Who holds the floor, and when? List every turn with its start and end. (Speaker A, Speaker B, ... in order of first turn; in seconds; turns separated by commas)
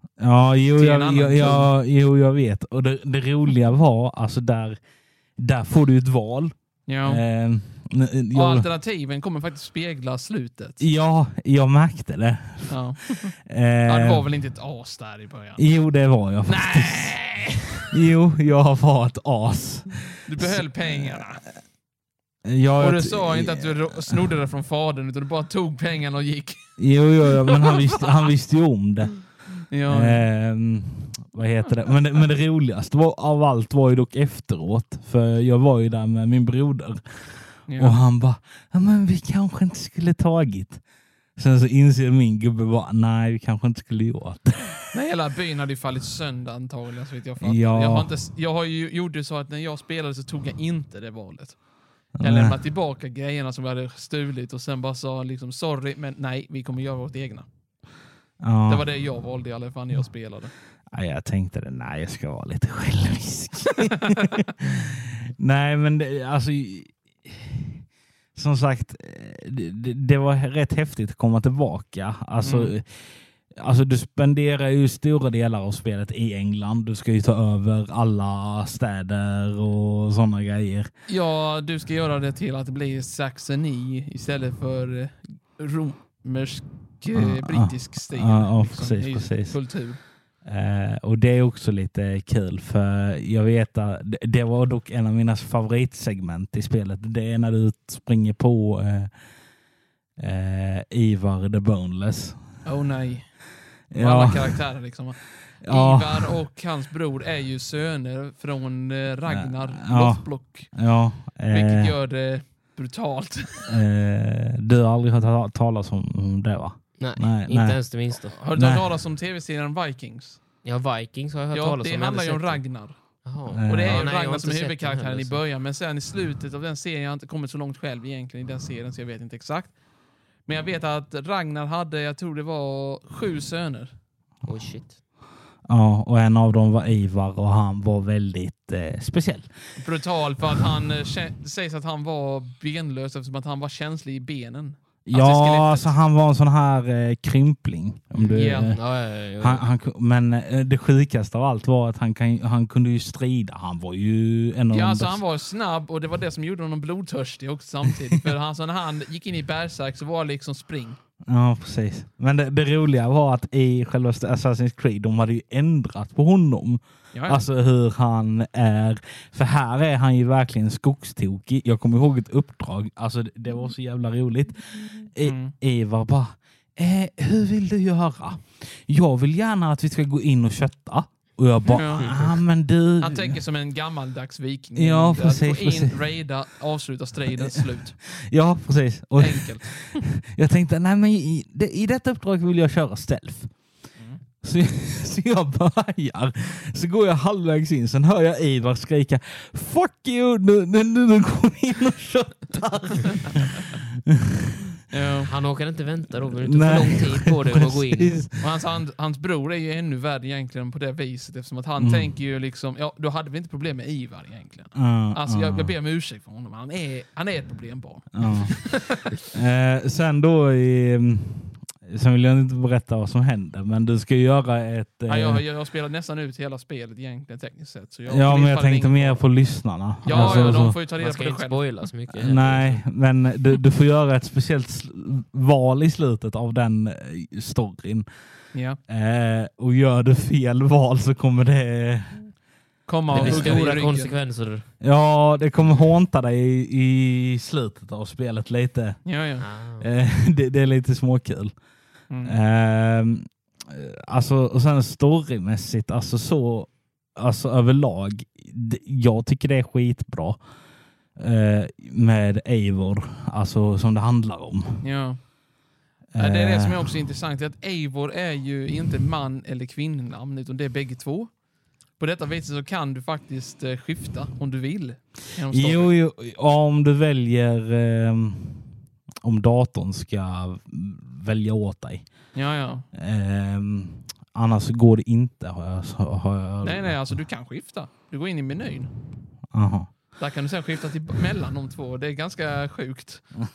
Speaker A: 0.2-4.8, Speaker B: 0.7-1.7, Speaker A: 5.4-6.5, Speaker B: 6.9-7.2, Speaker A: 7.0-8.7, Speaker B: 8.3-10.8, Speaker A: 10.8-12.8, Speaker B: 12.7-13.3, Speaker A: 13.4-14.2, Speaker B: 13.8-15.6, Speaker A: 15.6-17.2, Speaker B: 16.4-17.9, Speaker A: 17.9-21.2, Speaker B: 20.2-21.4, Speaker A: 22.4-24.2, Speaker B: 22.8-28.1, Speaker A: 26.8-29.2, Speaker B: 29.7-30.2, Speaker A: 29.9-40.8, Speaker B: 37.7-38.0, Speaker A: 41.4-44.8, Speaker B: 44.9-51.6, Speaker A: 47.4-48.1, Speaker A: 52.2-52.6, Speaker B: 52.2-57.5, Speaker A: 58.4-58.9, Speaker B: 58.7-60.5, Speaker A: 60.9-80.9, Speaker B: 63.9-64.4, Speaker B: 72.4-72.7, Speaker B: 81.1-90.0, Speaker A: 87.2-89.6, Speaker A: 90.4-99.1, Speaker A: 100.2-102.4, Speaker B: 102.7-103.3, Speaker A: 103.9-104.6, Speaker B: 103.9-110.7, Speaker A: 105.6-106.3, Speaker A: 109.3-111.9, Speaker B: 111.5-113.7, Speaker A: 113.7-117.8, Speaker C: 117.0-118.4, Speaker B: 118.1-120.4, Speaker A: 118.5-118.8, Speaker C: 120.6-122.6, Speaker B: 121.5-123.0, Speaker C: 123.2-125.4, Speaker A: 123.5-124.0, Speaker B: 123.7-129.7, Speaker B: 130.5-133.9, Speaker C: 134.5-135.0, Speaker A: 135.7-139.5, Speaker B: 139.8-146.0, Speaker A: 145.1-148.8, Speaker C: 148.2-149.6, Speaker B: 148.3-148.8, Speaker A: 149.4-155.2, Speaker B: 154.7-161.0, Speaker A: 161.2-183.4, Speaker B: 167.1-167.4, Speaker B: 175.2-175.5, Speaker B: 181.6-182.1, Speaker C: 182.0-182.4, Speaker B: 183.0-188.0, Speaker A: 184.8-186.0, Speaker A: 187.3-193.5, Speaker B: 189.2-190.0, Speaker A: 194.4-204.8, Speaker B: 204.9-205.3, Speaker C: 205.3-208.2, Speaker A: 206.3-208.4, Speaker B: 208.4-219.2, Speaker A: 211.8-212.1, Speaker A: 214.7-215.7, Speaker A: 218.1-218.7, Speaker A: 219.2-225.4, Speaker B: 225.1-229.2, Speaker A: 228.1-230.8, Speaker B: 230.0-231.7, Speaker C: 230.1-232.8, Speaker A: 232.1-238.1, Speaker B: 238.5-238.8, Speaker A: 238.9-242.3, Speaker B: 242.9-244.2, Speaker A: 243.1-243.7, Speaker C: 243.1-244.7, Speaker A: 244.8-249.0, Speaker B: 249.1-249.5, Speaker C: 249.4-249.9, Speaker A: 249.8-251.5, Speaker B: 252.1-252.4, Speaker A: 252.2-260.4, Speaker A: 261.2-264.8, Speaker B: 264.8-265.2, Speaker A: 266.1-266.9, Speaker B: 266.1-271.3, Speaker B: 272.0-275.9, Speaker A: 275.5-278.7, Speaker A: 279.2-282.1, Speaker B: 282.3-282.9, Speaker A: 282.9-287.0, Speaker B: 286.6-288.9, Speaker A: 289.5-289.9, Speaker B: 290.2-293.2